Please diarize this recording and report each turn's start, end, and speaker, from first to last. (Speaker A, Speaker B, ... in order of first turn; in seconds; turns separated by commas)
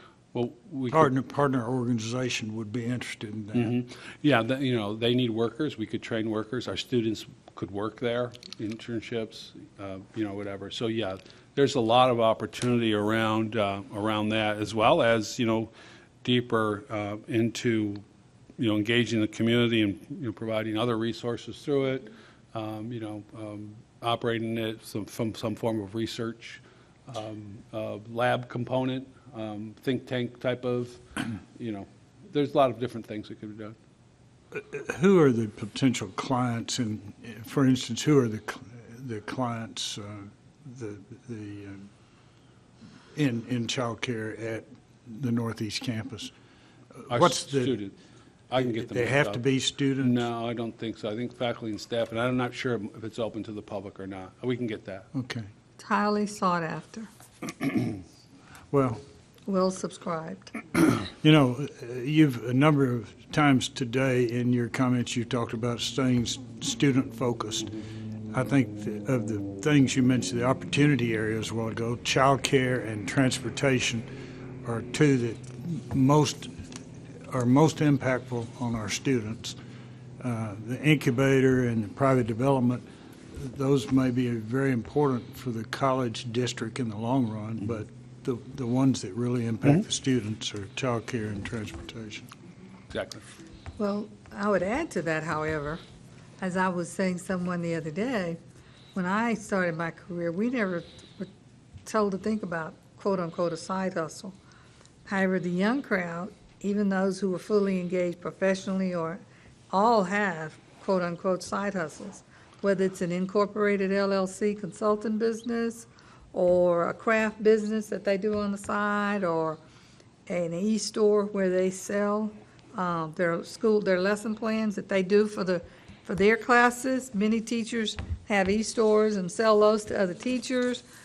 Speaker A: 0.3-1.1, Speaker B: 0.9-3.8, Speaker A: 3.5-15.7, Speaker A: 16.2-18.0, Speaker A: 18.6-33.8, Speaker B: 34.5-41.9, Speaker B: 43.1-46.3, Speaker B: 47.0-47.8, Speaker A: 47.1-47.9, Speaker A: 48.5-49.4, Speaker B: 48.6-50.3, Speaker A: 50.0-55.1, Speaker B: 55.1-55.5, Speaker C: 55.8-57.1, Speaker B: 58.7-59.0, Speaker C: 59.5-60.5, Speaker B: 61.2-67.7, Speaker B: 68.3-74.1, Speaker B: 74.6-76.7, Speaker B: 77.3-79.6, Speaker B: 80.2-92.3, Speaker A: 92.9-93.2, Speaker C: 93.8-95.8, Speaker C: 96.4-98.4, Speaker C: 98.9-101.3, Speaker C: 101.8-104.4, Speaker C: 105.1-119.6, Speaker C: 120.3-130.8